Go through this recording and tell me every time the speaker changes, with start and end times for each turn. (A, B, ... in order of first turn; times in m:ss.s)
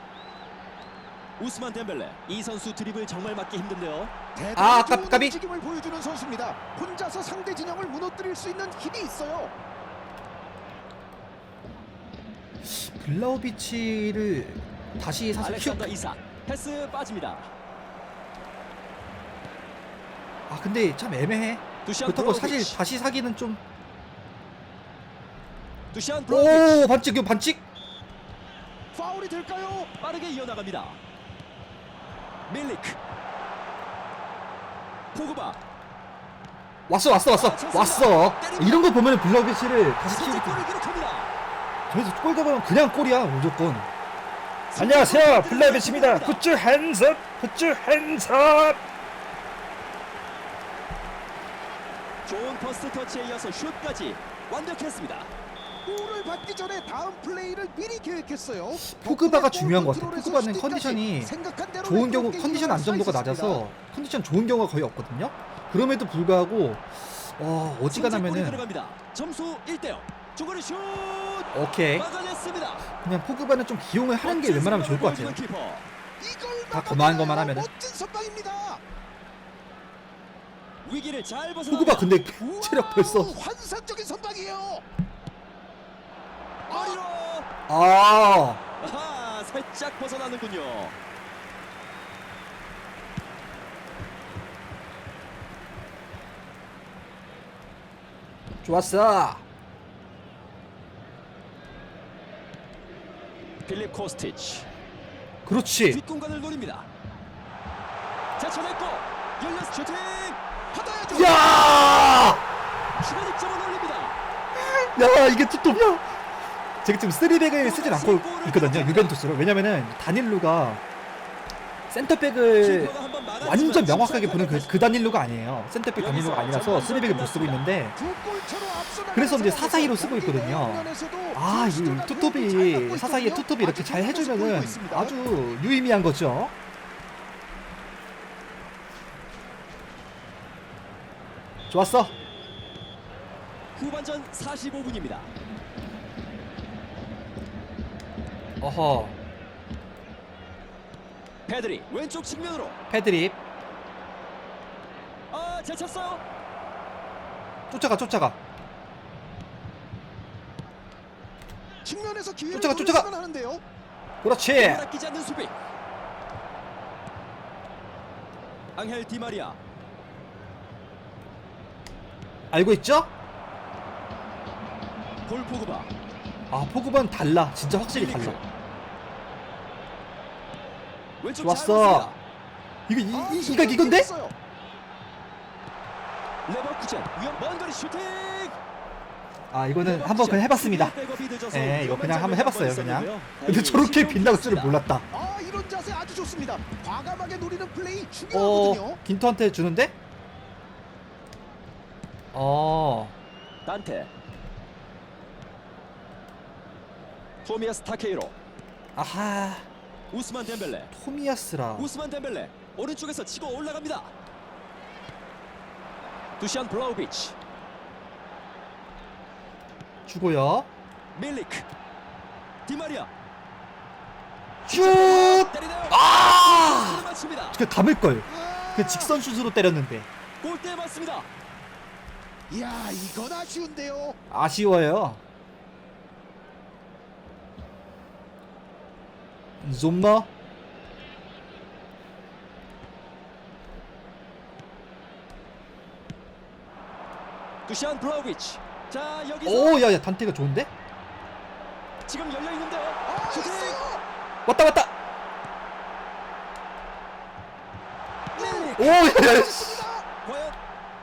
0:01.4-0:04.1 A
0:04.4-0:09.5 B
0:04.6-0:05.4 C
0:12.6-0:15.9 C
0:15.4-0:17.5 A
0:20.5-0:23.6 C
0:21.8-0:22.8 A
0:25.9-0:26.8 A
0:26.3-0:27.6 C
0:28.9-0:29.9 B
0:30.0-0:31.0 A
0:32.5-0:33.0 A
0:35.1-0:35.6 A
0:36.9-0:40.6 C
0:37.3-0:38.9 A
0:40.0-0:41.3 A
0:41.9-0:43.9 C
0:44.7-0:46.4 A
0:44.8-0:48.8 C
0:52.2-0:55.3 A
0:55.8-1:03.6 B
0:58.8-1:08.6 C
1:07.9-1:12.9 A
1:11.5-1:12.1 C
1:13.0-1:15.4 C
1:14.2-1:15.9 A
1:16.2-1:18.8 B
1:16.7-1:17.7 C
1:20.8-1:22.2 A
1:21.7-1:23.3 C
1:22.4-1:24.8 B
1:26.7-1:27.0 B
1:26.7-1:27.5 A
1:27.7-1:28.6 C
1:28.8-1:31.0 A
1:38.6-1:39.4 C
1:43.6-1:44.7 A
1:45.4-1:46.0 C
1:45.9-1:46.9 A
1:48.4-1:50.4 A
1:50.7-1:51.6 B
1:51.1-1:52.4 C
1:53.0-1:54.2 A
1:54.5-1:56.1 C
1:56.8-2:00.8 C
1:57.6-1:59.1 A
2:01.9-2:07.9 C
2:02.6-2:04.8 A
2:06.0-2:07.6 A
2:08.0-2:15.1 B
2:09.1-2:16.5 C
2:21.7-2:22.1 C
2:23.7-2:25.3 A
2:28.6-2:29.2 C
2:31.5-2:32.8 A
2:32.9-2:33.4 C
2:35.3-2:36.2 A
2:37.7-2:38.4 C
2:41.8-2:43.6 B
2:42.5-2:43.1 C
2:44.2-2:44.8 C
2:44.6-2:45.5 A
2:48.7-2:49.6 A
2:52.5-2:53.1 C
2:55.2-2:55.9 A
2:56.5-2:58.4 C
2:57.9-2:58.4 A
3:01.2-3:02.2 A
3:01.4-3:02.1 C
3:02.9-3:04.1 C
3:03.1-3:04.3 B
3:06.4-3:08.6 A
3:09.5-3:11.0 C
3:09.8-3:14.8 A
3:11.5-3:15.0 C
3:15.1-3:19.0 B
3:18.3-3:19.9 C
3:22.3-3:23.1 C
3:23.6-3:24.1 A
3:27.4-3:28.3 A
3:29.0-3:29.7 C
3:30.1-3:30.9 A
3:30.9-3:31.9 C
3:31.8-3:34.1 A
3:36.4-3:37.4 A
3:40.1-3:40.7 C
3:41.1-3:41.7 A
3:42.6-3:43.1 A
3:44.6-3:50.1 C
3:44.7-3:47.6 A
3:48.2-3:49.2 B
3:50.4-3:51.3 A
3:52.5-3:54.2 B
3:54.3-3:55.2 C
3:59.6-4:00.3 C
4:07.6-4:09.8 A
4:09.4-4:10.7 C
4:12.0-4:13.8 A
4:13.0-4:14.0 B
4:14.4-4:14.9 C
4:18.3-4:19.0 A
4:18.4-4:20.1 B
4:18.7-4:19.9 C
4:20.2-4:20.6 A